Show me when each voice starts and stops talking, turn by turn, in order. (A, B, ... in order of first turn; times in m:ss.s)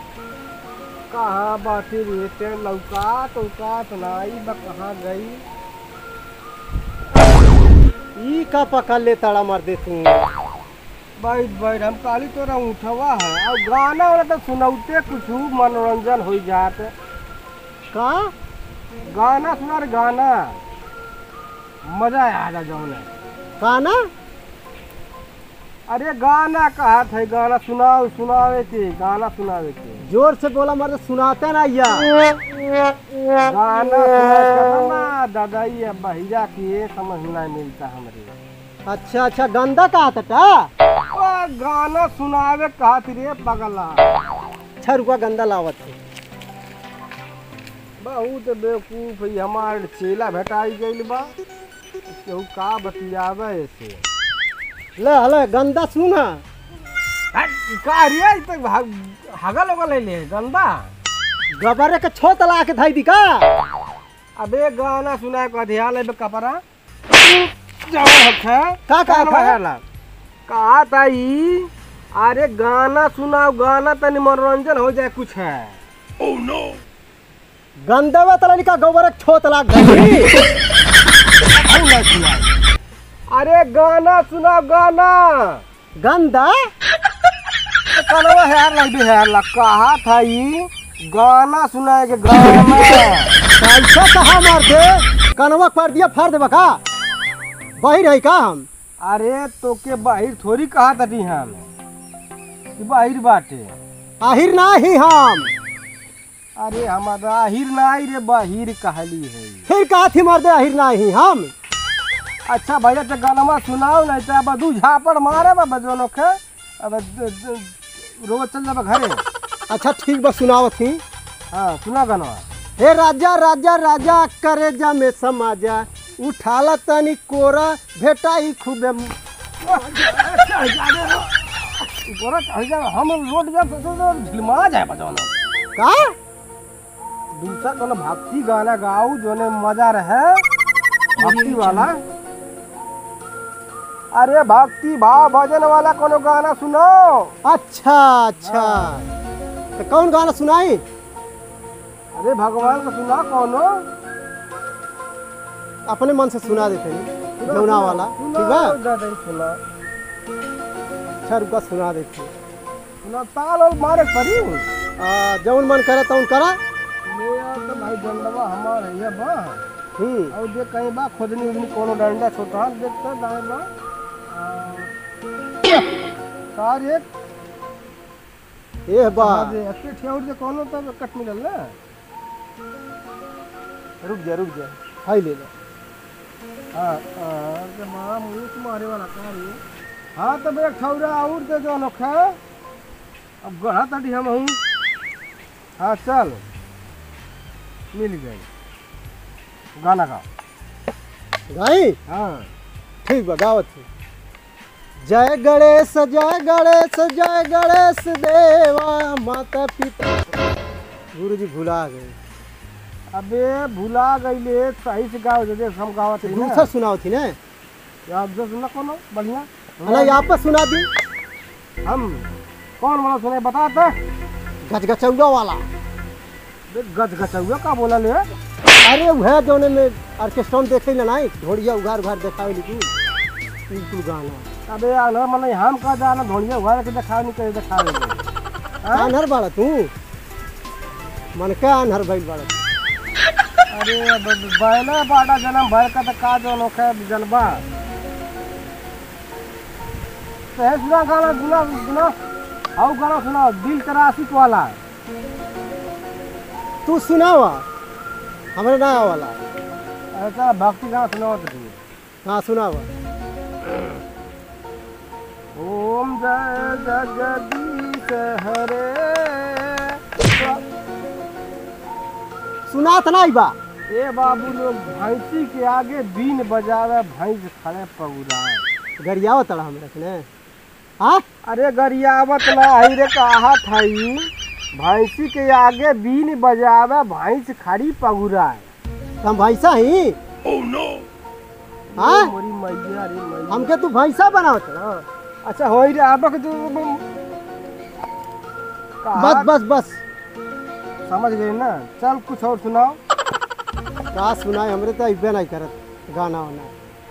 0:01.1-0:05.4 A
0:08.2-0:10.2 B
0:11.2-0:16.9 A
0:17.9-0:18.3 B
0:19.1-0:20.6 A
0:21.8-0:23.1 A
0:23.6-0:24.1 B
0:25.9-0:30.0 A
0:30.0-0:32.1 B
0:33.4-0:38.3 A
0:38.8-0:40.7 B
0:41.1-0:44.1 A
0:44.8-0:46.0 B
0:48.0-0:51.3 A
0:52.1-0:54.0 A
0:55.0-0:56.4 B
0:57.3-1:00.9 A
1:01.6-1:03.5 B
1:04.4-1:06.6 A
1:07.8-1:09.8 A
1:08.9-1:09.6 B
1:10.5-1:15.8 A
1:17.8-1:20.3 B
1:21.6-1:22.5 A
1:23.3-1:25.6 A
1:26.0-1:26.6 B
1:27.9-1:33.3 A
1:33.6-1:36.8 B
1:37.8-1:38.7 B
1:39.0-1:41.7 A
1:42.8-1:43.8 A
1:44.2-1:45.5 B
1:46.6-1:49.7 A
1:49.7-1:51.5 B
1:52.5-1:59.2 A
1:59.7-2:01.0 B
2:01.5-2:02.4 A
2:02.8-2:09.1 B
2:09.6-2:15.3 A
2:15.8-2:16.1 B
2:17.3-2:20.4 A
2:21.2-2:21.9 B
2:21.2-2:22.0 A
2:24.1-2:27.3 A
2:27.4-2:29.1 B
2:28.4-2:29.0 A
2:29.8-2:30.8 B
2:32.1-2:33.8 A
2:35.9-2:38.8 B
2:37.4-2:39.6 A
2:41.2-2:42.3 B
2:43.0-2:44.7 A
2:45.0-2:46.6 B
2:47.0-2:49.6 A
2:50.0-2:50.3 B
2:50.3-2:53.7 A
2:54.3-2:54.9 A
2:56.5-2:57.1 A
2:58.9-2:59.6 B
2:59.1-3:01.8 A
3:04.0-3:05.5 B
3:04.4-3:04.6 A
3:06.7-3:09.6 A
3:10.2-3:12.4 A
3:13.4-3:14.6 A
3:15.8-3:16.4 A
3:17.9-3:18.4 A
3:19.8-3:20.2 A
3:21.5-3:22.0 B
3:22.1-3:22.5 A
3:23.0-3:23.8 B
3:25.0-3:30.2 B
3:31.1-3:32.1 B
3:33.1-3:36.7 A
3:36.2-3:37.4 B
3:38.1-3:40.2 A
3:39.8-3:40.9 B
3:41.8-3:42.2 A
3:42.8-3:44.0 A
3:44.6-3:45.6 B
3:46.7-3:48.3 A
3:48.8-3:52.9 B
3:53.7-3:54.4 B
3:54.7-3:58.2 A
3:58.8-3:59.1 A
3:58.9-3:59.9 B
4:01.3-4:02.6 B
4:03.7-4:07.6 A
4:10.5-4:12.2 A
4:12.8-4:14.8 A
4:16.8-4:17.6 B
4:18.5-4:19.4 B
4:20.1-4:21.8 A
4:22.2-4:22.9 B
4:25.5-4:30.6 A
4:32.7-4:33.6 B
4:33.9-4:38.6 A
4:39.0-4:40.2 B
4:41.4-4:48.7 A
4:49.2-4:50.2 B
4:51.9-4:53.7 A
4:52.0-4:52.3 B
4:53.5-4:55.0 B
4:55.4-4:57.0 A
4:59.0-4:59.5 A
4:59.2-5:00.0 B
5:01.1-5:03.0 A
5:04.1-5:06.7 B